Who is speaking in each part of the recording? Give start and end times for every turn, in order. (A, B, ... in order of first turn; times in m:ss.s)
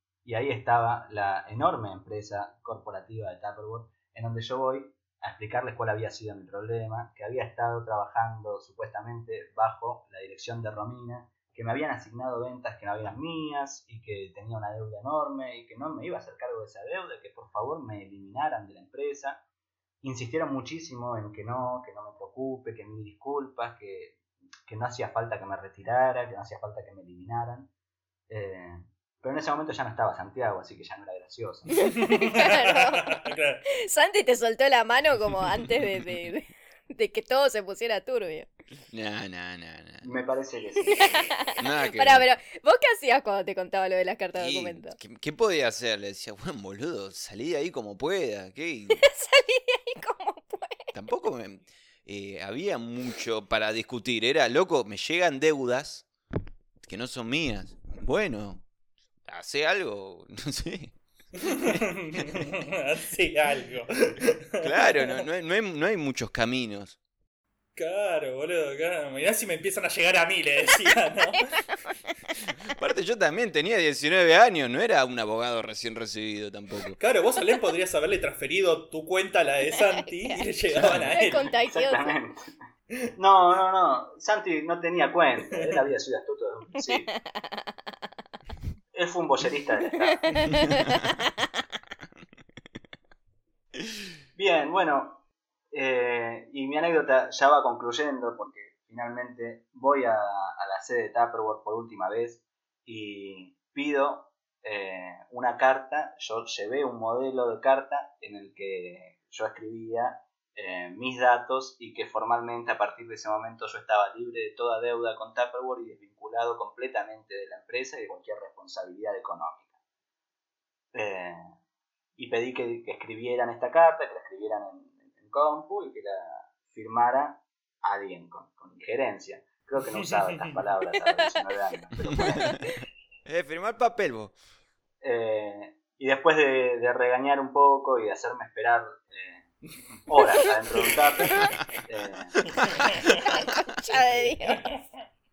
0:00.2-0:19.4 A
0:20.0-0:27.7 A
0:28.3-0:31.8 A
0:31.8-0:33.2 B
0:32.0-0:33.6 C
0:33.7-0:38.5 B
0:38.9-0:40.1 D
0:40.0-0:41.2 A
0:40.9-0:42.3 D
0:41.1-0:45.0 B
0:44.3-0:49.0 D
0:48.9-0:50.9 B
0:50.9-0:56.1 D
0:56.8-0:58.6 D
0:59.2-1:01.0 D
1:01.4-1:05.2 C
1:01.5-1:01.8 D
1:04.6-1:07.0 D
1:07.8-1:11.6 C
1:11.4-1:12.1 B
1:12.8-1:17.0 D
1:17.0-1:21.5 C
1:19.7-1:20.4 B
1:21.0-1:22.2 B
1:21.6-1:22.5 A
1:23.2-1:27.1 A
1:26.8-1:27.6 B
1:28.9-1:30.2 A
1:30.0-1:31.5 B
1:34.4-1:59.7 A
2:00.9-2:01.4 A
2:02.2-2:12.6 A
2:09.9-2:10.6 C
2:12.1-2:12.5 B
2:13.3-2:14.4 D
2:15.0-2:19.5 A
2:20.1-2:22.4 A
2:20.8-2:21.2 C
2:22.6-2:23.3 C
2:23.3-2:24.6 B
2:23.9-2:24.8 C